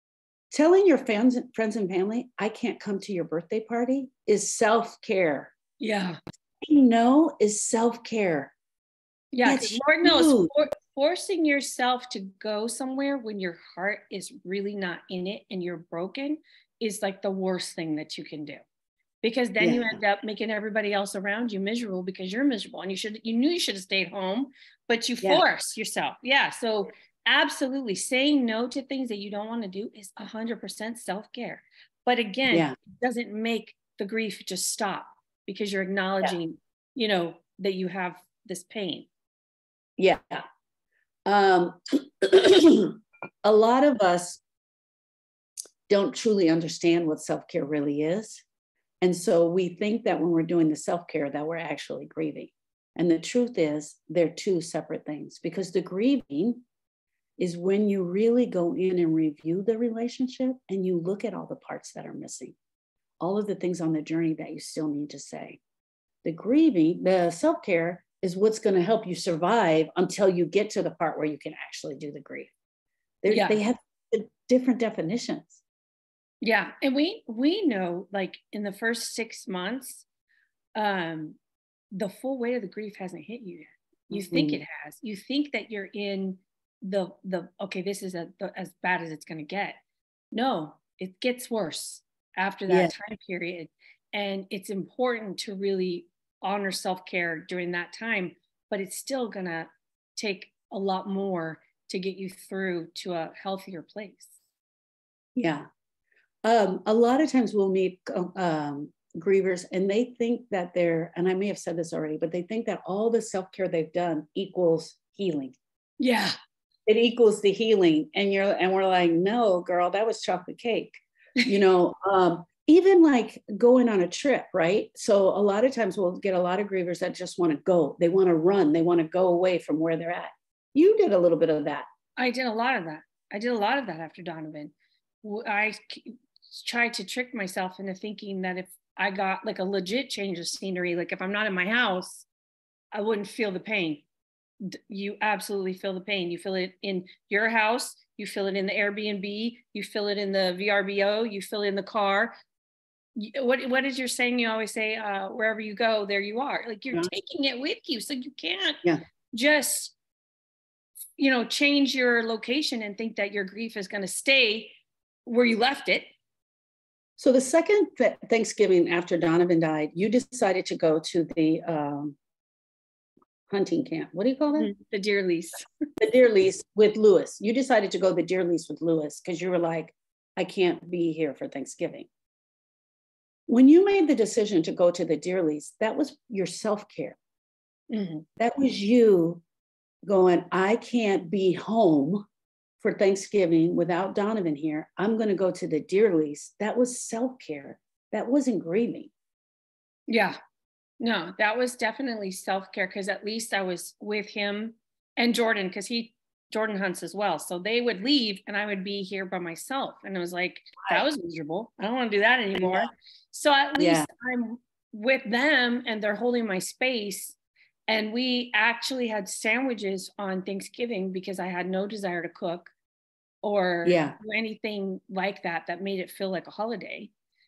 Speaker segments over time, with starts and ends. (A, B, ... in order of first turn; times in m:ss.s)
0:00.5-0:05.5 A
0:05.8-0:06.2 B
0:06.7-0:08.6 A
0:09.3-0:18.6 B
0:09.4-0:10.5 A
0:19.2-0:39.1 B
0:19.6-0:20.0 A
0:32.5-0:32.8 A
0:40.0-0:40.4 A
0:41.3-0:44.4 A
0:45.9-0:48.4 A
0:49.0-0:56.6 A
0:57.4-1:02.6 A
1:03.2-1:05.6 A
1:06.2-1:12.5 A
1:13.2-1:15.6 A
1:13.3-1:13.6 B
1:16.4-1:20.1 B
1:20.8-1:21.4 B
1:22.0-1:29.8 B
1:24.1-1:24.6 A
1:30.3-1:44.3 B
1:32.7-1:32.9 A
1:45.4-1:45.7 A
1:46.4-1:55.6 A
1:56.0-1:56.4 B
1:56.9-2:11.8 A
2:12.2-2:22.3 B
2:22.9-2:24.0 B
2:24.6-2:32.3 B
2:33.2-2:39.9 B
2:41.2-2:44.8 B
2:45.3-2:46.1 B
2:47.2-2:52.2 A
2:53.5-2:54.7 A
2:54.6-2:55.7 B
2:56.0-3:02.1 A
3:03.5-3:07.2 A
3:07.9-3:08.2 B
3:08.4-3:09.4 A
3:10.1-3:12.2 A
3:12.8-3:19.1 A
3:20.1-3:20.4 B
3:21.0-3:37.4 B
3:32.6-3:32.9 A
3:33.8-3:34.1 A
3:37.9-3:42.7 B
3:43.4-3:47.1 B
3:43.8-3:44.2 A